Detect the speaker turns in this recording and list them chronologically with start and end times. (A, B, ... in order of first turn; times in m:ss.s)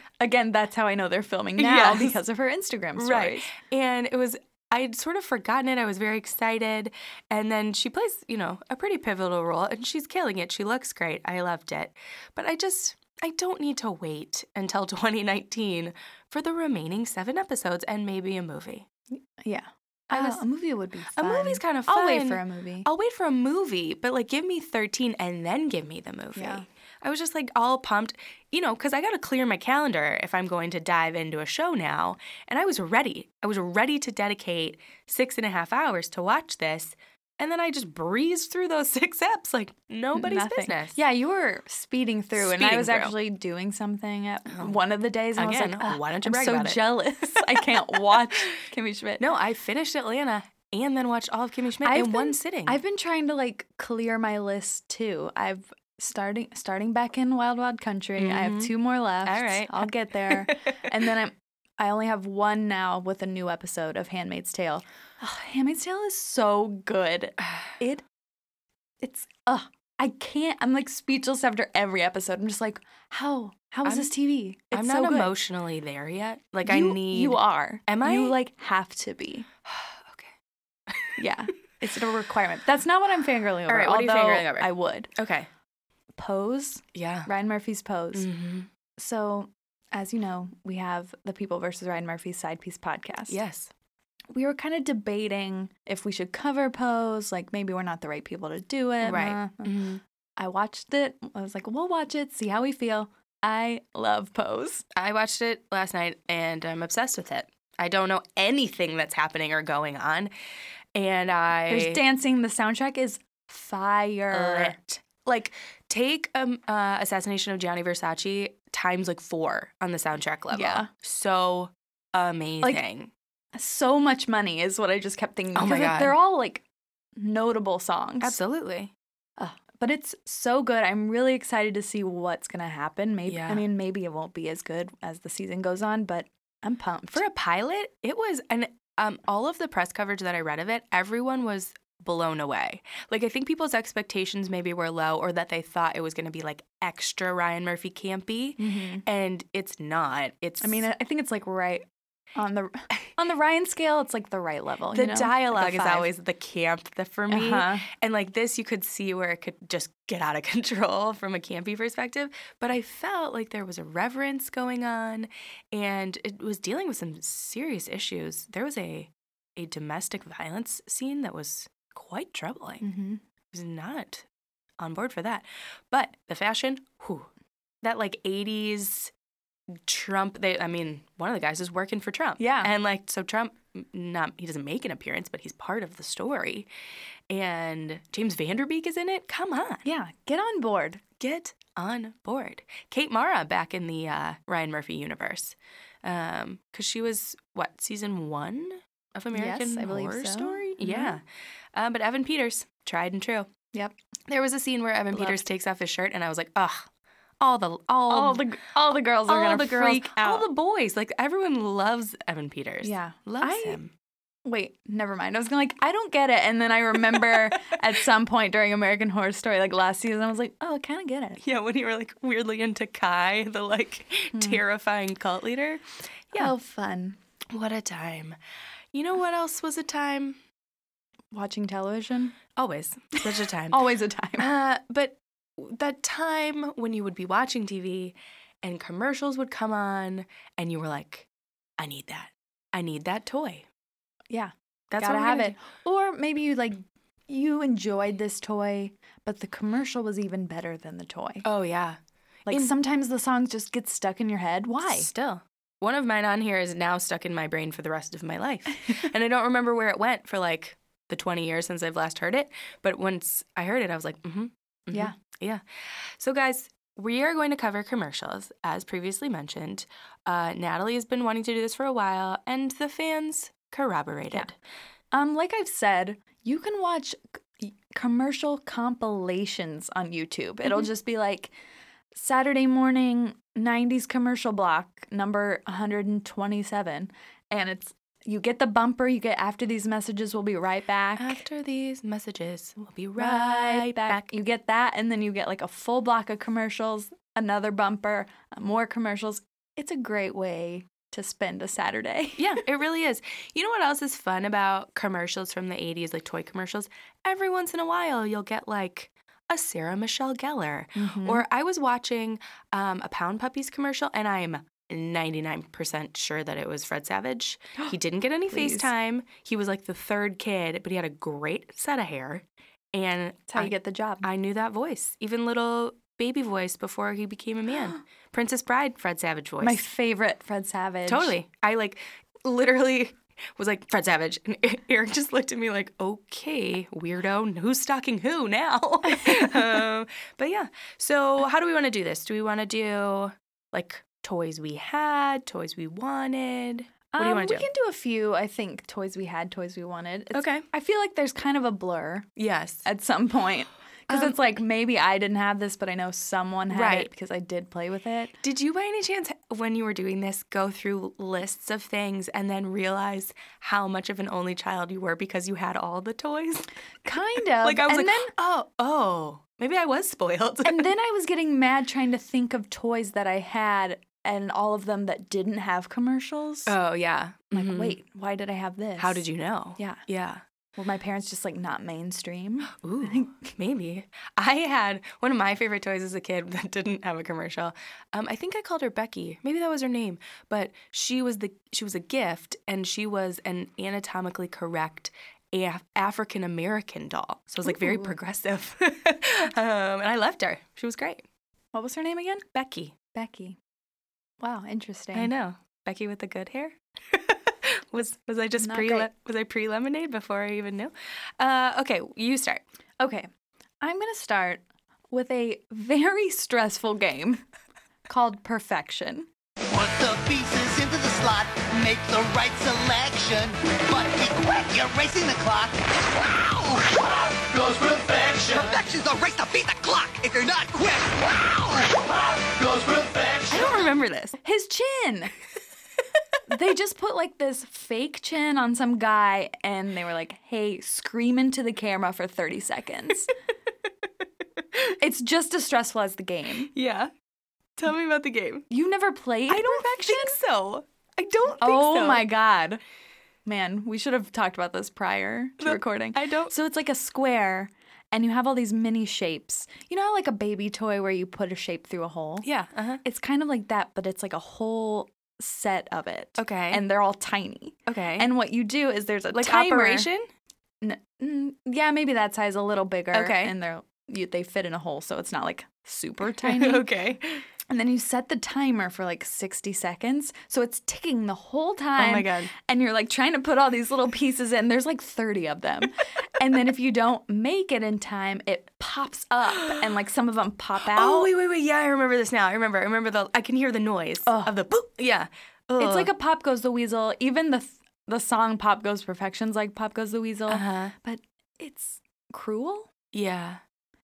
0:00.2-0:03.5 A
0:01.6-0:02.2 B
0:03.0-0:18.9 B
0:19.1-0:22.9 A
0:20.1-0:20.4 B
0:21.1-0:41.0 B
0:26.3-0:26.6 A
0:40.1-0:49.2 A
0:42.4-0:43.1 B
0:44.5-0:44.8 B
0:45.3-0:46.8 B
0:47.3-0:48.5 B
0:49.2-0:52.8 B
0:51.8-1:08.0 A
0:58.2-0:58.7 B
0:59.2-1:00.8 B
1:07.4-1:07.7 B
1:09.0-1:15.3 A
1:13.8-1:14.1 B
1:14.7-1:18.4 B
1:16.6-1:19.5 A
1:19.6-1:20.3 B
1:21.2-1:25.1 A
1:23.7-1:25.5 B
1:26.2-1:28.3 A
1:26.9-1:27.3 B
1:28.1-1:28.7 B
1:29.0-1:33.4 A
1:33.3-1:33.7 B
1:34.3-1:39.7 A
1:39.0-1:40.0 B
1:40.4-1:44.8 A
1:44.9-1:50.3 B
1:50.9-1:52.0 B
1:51.7-1:54.7 A
1:54.3-2:03.1 B
2:00.5-2:00.9 A
2:03.5-2:06.6 A
2:05.5-2:06.2 B
2:07.2-2:08.4 A
2:08.2-2:08.9 B
2:09.4-2:17.2 A
2:13.3-2:13.6 B
2:17.1-2:30.8 B
2:28.6-2:29.0 A
2:30.6-2:31.8 A
2:32.4-2:36.1 A
2:34.9-2:52.9 B
2:37.3-2:37.8 A
2:52.8-2:53.2 A
2:53.5-2:54.2 B
2:54.8-2:57.3 B
2:57.8-2:59.1 B
2:59.8-3:06.7 B
3:02.4-3:02.7 A
3:07.3-3:09.8 B
3:09.8-3:11.0 A
3:11.2-3:21.2 B
3:19.3-3:21.2 A
3:21.7-3:23.5 B
3:24.3-3:26.9 B
3:25.1-3:25.4 A
3:27.4-3:28.4 B
3:28.1-3:30.5 A
3:29.3-3:33.9 B
3:32.8-3:33.8 A
3:34.4-3:41.4 A
3:41.4-3:46.5 B
3:44.3-3:44.6 A
3:46.3-3:47.2 A
3:47.5-3:48.4 B
3:48.9-3:50.4 B
3:51.3-3:52.4 A
3:52.6-3:53.8 B
3:53.7-3:54.5 A
3:54.4-4:01.3 B
4:01.8-4:03.6 B
4:04.3-4:11.4 A
4:04.9-4:05.6 B
4:11.4-4:12.7 B
4:12.5-4:15.1 A
4:14.8-4:34.5 B
4:35.1-4:41.5 A
4:42.1-4:51.4 A
4:51.2-4:54.3 B
4:53.2-5:02.6 A
5:02.4-5:29.8 B
5:10.9-5:11.4 A
5:18.5-5:18.9 A
5:23.5-5:24.2 A
5:29.6-5:31.3 A
5:31.1-5:47.7 B
5:39.2-5:39.6 A
5:47.1-5:52.3 A
5:50.3-5:50.6 B
5:52.4-5:52.8 B
5:52.8-5:58.3 A
5:54.1-5:54.4 B
5:56.7-5:57.1 B
5:58.4-6:06.7 B
6:07.0-6:08.3 A
6:07.6-6:10.9 B
6:10.6-6:16.7 A
6:16.6-6:18.0 B
6:17.5-6:19.2 A
6:19.0-6:20.4 B
6:19.8-6:20.0 A
6:20.8-6:23.5 A
6:22.8-6:41.2 B
6:37.6-6:38.2 A
6:41.7-6:42.4 A
6:42.5-6:43.0 B
6:43.1-6:43.6 A
6:44.4-6:45.3 A
6:45.1-6:52.6 B
6:48.6-6:49.1 A
6:53.0-6:53.3 A
6:53.8-6:57.4 A
6:58.1-6:59.3 A
6:59.7-7:13.7 C
7:13.5-7:14.4 B
7:14.4-7:15.3 A
7:16.5-7:23.3 A
7:25.0-7:26.7 A
7:26.7-7:27.1 B
7:27.8-7:28.6 B
7:28.7-7:30.4 A
7:29.5-7:32.3 B
7:31.6-7:32.8 A
7:33.4-7:42.5 A
7:35.6-7:36.5 B
7:42.4-7:43.0 B
7:43.0-7:50.1 A
7:46.4-7:46.8 B
7:47.9-7:48.3 B
7:49.3-7:50.3 B
7:50.8-7:56.8 A
7:53.1-7:53.5 B
7:56.4-7:57.4 B
7:57.7-8:11.3 A
8:02.0-8:02.5 B
8:10.8-8:16.1 B
8:14.2-8:14.6 A
8:15.8-8:22.9 A
8:20.5-8:20.9 B
8:23.1-8:23.6 B